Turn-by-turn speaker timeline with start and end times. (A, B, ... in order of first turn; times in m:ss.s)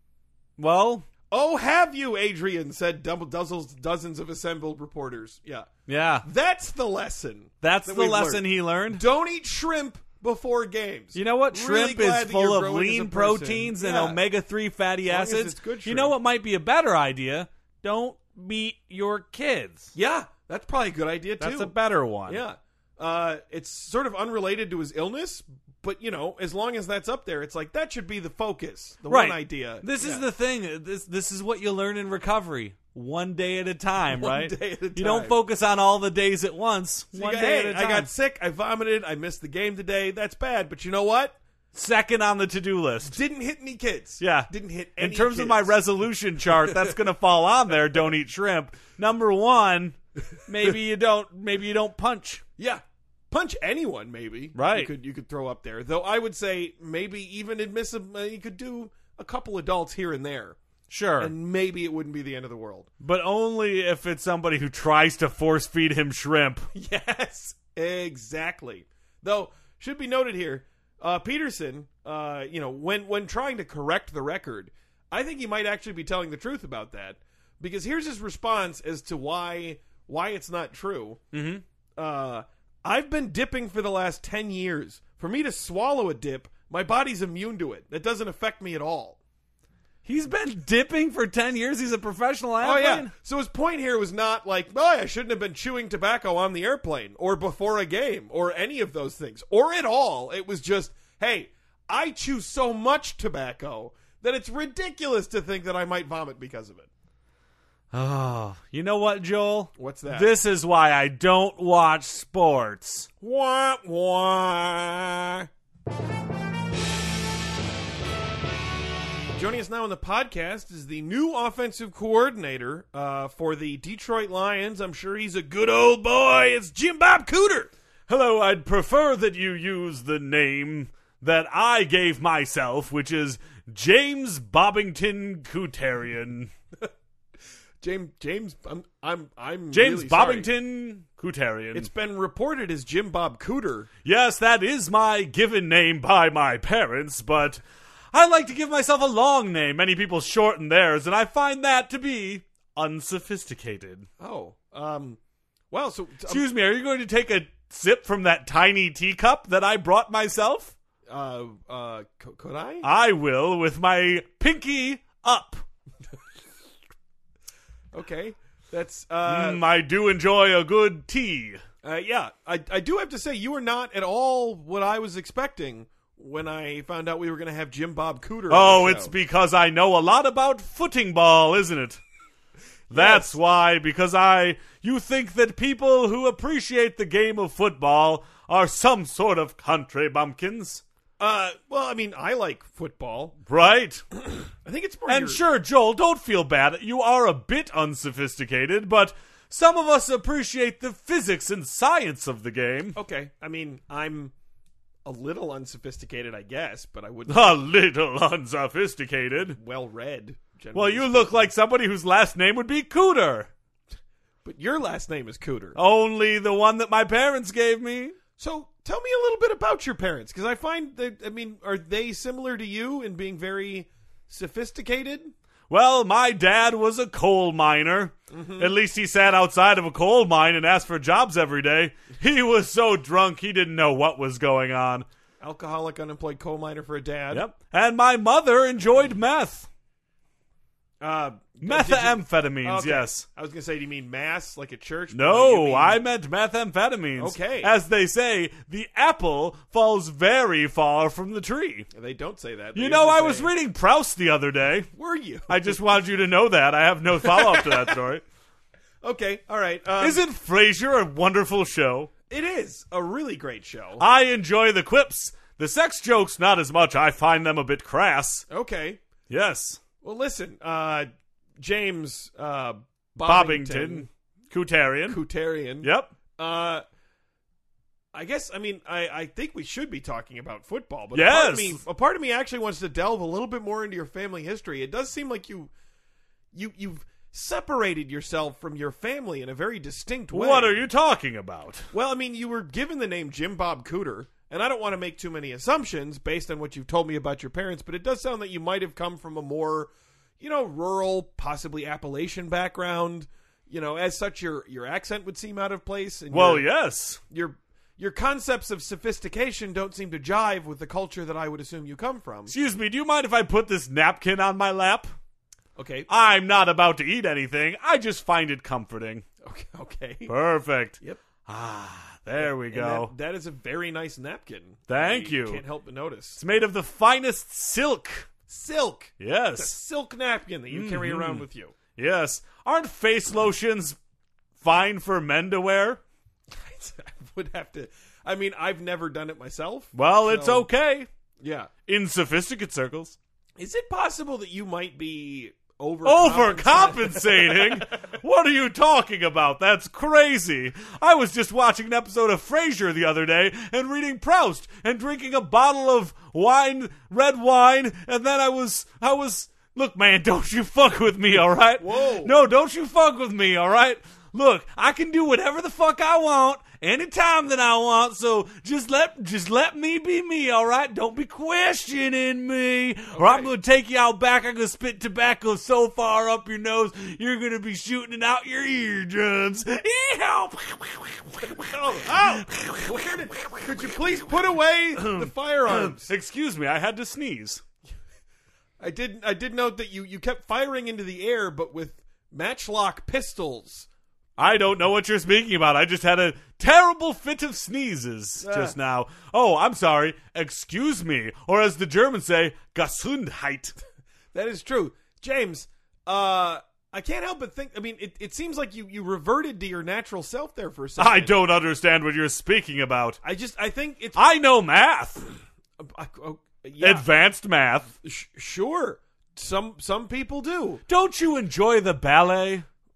0:00.6-0:01.1 A
0:01.3-0:05.7 B
0:05.9-0:06.3 A
0:06.2-0:14.2 B
0:07.6-0:09.0 A
0:11.2-0:19.9 A
0:15.0-0:16.2 B
0:20.0-0:21.8 B
0:21.4-0:22.4 A
0:22.3-0:30.2 B
0:29.1-0:38.1 A
0:34.1-0:35.4 B
0:37.1-0:41.4 B
0:41.7-0:43.2 A
0:43.0-0:45.8 B
0:44.2-0:52.4 A
0:46.5-0:47.0 B
0:52.6-1:00.6 B
0:54.6-0:54.9 A
1:00.9-1:01.3 A
1:01.2-1:02.9 B
1:03.0-1:06.7 A
1:06.7-1:21.2 B
1:21.3-1:21.6 A
1:22.0-1:29.2 B
1:30.0-1:33.1 A
1:32.6-1:46.9 B
1:47.9-1:53.1 A
1:49.8-1:50.3 B
1:53.2-1:55.5 B
1:59.3-2:07.7 B
2:08.1-2:16.5 A
2:17.8-2:20.5 B
2:19.7-2:21.9 A
2:21.7-2:23.9 B
2:24.0-2:34.1 A
2:34.2-2:35.2 B
2:35.7-2:36.5 B
2:36.3-2:40.8 A
2:41.1-2:42.9 B
2:42.8-2:45.6 A
2:47.9-2:49.6 B
2:49.3-2:51.6 A
2:51.8-2:59.1 B
2:58.5-3:02.0 A
3:02.9-3:03.3 B
3:02.9-3:10.8 A
3:11.2-3:13.4 B
3:13.5-3:14.0 A
3:14.2-3:15.4 B
3:15.1-3:23.0 A
3:23.0-3:24.3 B
3:25.0-3:27.7 B
3:27.3-3:29.6 A
3:29.6-3:31.4 B
3:30.7-3:33.5 A
3:34.4-3:35.8 B
3:35.8-3:38.2 A
3:38.4-3:45.3 B
3:45.7-3:55.1 A
3:48.3-3:48.8 B
3:55.4-3:57.4 B
3:57.3-3:59.7 A
4:01.0-4:06.0 B
4:01.6-4:03.2 A
4:05.1-4:11.9 A
4:07.2-4:07.7 B
4:11.9-4:13.5 B
4:12.8-4:14.9 A
4:14.9-4:15.8 B
4:15.5-4:18.2 A
4:17.2-4:18.0 B
4:19.0-4:20.2 B
4:20.0-4:22.1 A
4:22.3-4:24.0 B
4:24.0-4:28.4 A
4:28.5-4:29.0 B
4:29.3-4:29.8 A
4:30.0-4:34.1 B
4:33.2-4:35.2 A
4:35.1-4:36.8 B
4:35.8-4:36.1 A
4:38.1-4:45.7 B
4:41.1-4:41.8 A
4:46.5-4:50.8 B
4:50.3-4:51.9 A
4:51.9-5:06.7 B
5:06.3-5:07.2 A
5:07.3-5:12.5 B
5:12.5-5:15.1 A
5:15.8-5:16.1 B
5:16.1-5:19.2 A
5:19.4-5:20.3 B
5:20.3-5:23.1 A
5:22.4-5:26.4 B
5:24.9-5:25.6 A
5:26.4-5:28.3 A
5:28.5-5:31.8 B
5:29.2-5:29.8 A
5:30.7-5:34.0 A
5:34.6-5:36.0 A
5:36.5-5:40.7 B
5:39.9-5:41.1 A
5:41.4-5:41.7 B
5:41.9-5:43.2 A
5:43.6-5:48.1 B
5:46.0-6:23.6 A
6:01.8-6:02.4 B
6:13.1-6:13.5 B
6:21.5-6:26.1 B
6:25.0-6:27.6 A
6:28.8-6:33.9 B
6:34.4-6:43.8 A
6:38.4-6:38.8 B
6:44.3-6:51.4 B
6:51.0-6:53.2 A
6:53.2-6:54.2 B
6:54.2-6:55.3 A
6:55.8-6:57.1 B
6:56.8-6:57.9 A
6:58.0-7:00.8 B
7:00.9-7:02.7 A